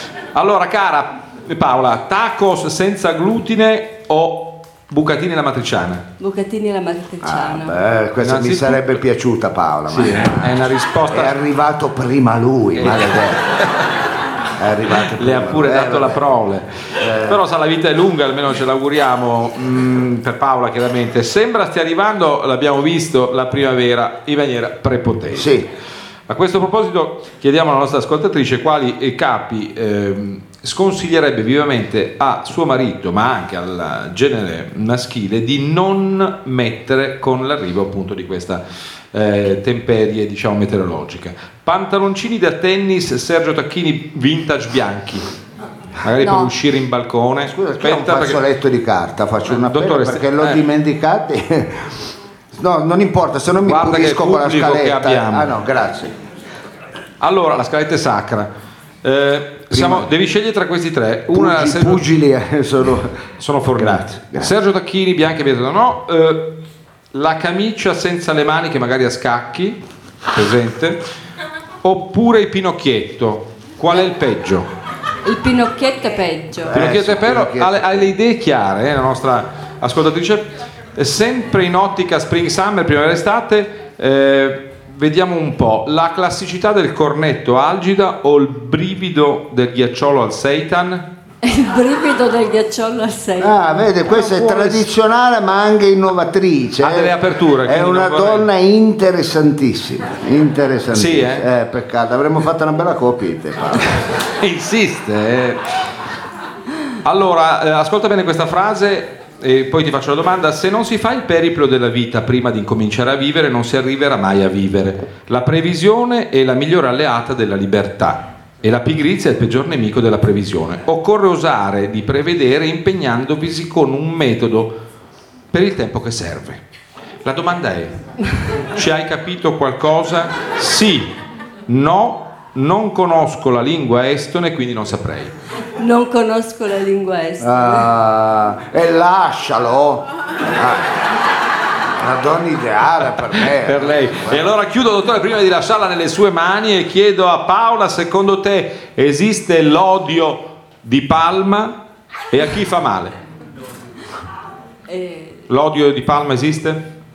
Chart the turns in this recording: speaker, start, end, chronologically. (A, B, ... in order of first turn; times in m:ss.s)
0:00.3-0:06.0 A
0:06.2-0:07.8 B
0:07.2-0:10.5 C
0:08.2-0:08.8 A
0:09.9-0:11.4 A
0:11.1-0:13.4 C
0:12.8-0:13.8 A
0:14.6-0:16.2 C
0:15.0-0:25.6 A
0:17.0-0:17.4 C
0:25.3-0:25.6 C
0:26.3-0:38.6 A
0:39.1-0:45.2 A
0:46.0-0:48.4 A
0:46.2-0:46.5 B
0:47.5-0:52.0 C
0:49.5-0:50.6 A
0:52.5-0:56.1 C
0:53.7-0:55.5 A
0:57.2-0:58.5 A
0:59.0-1:02.0 A
0:59.7-1:00.1 C
1:01.3-1:03.2 C
1:03.4-1:06.5 A
1:03.8-1:04.5 C
1:07.1-1:09.8 A
1:10.3-1:11.0 A
1:11.8-1:14.7 A
1:15.2-1:16.7 B
1:16.7-1:18.1 C
1:16.7-1:31.0 A
1:31.4-1:33.6 B
1:33.4-1:44.0 C
1:34.2-1:34.8 A
1:36.8-1:38.5 A
1:40.9-1:41.4 A
1:44.4-1:45.6 A
1:47.0-2:04.7 A
2:05.5-2:06.6 A
2:07.2-2:07.9 A
2:08.7-2:11.1 A
2:11.7-2:15.3 A
2:15.8-2:17.9 B
2:17.4-2:20.8 C
2:22.0-2:24.4 C
2:23.4-2:31.7 A
2:32.3-2:33.1 A
2:34.9-2:35.4 B
2:35.5-2:36.8 A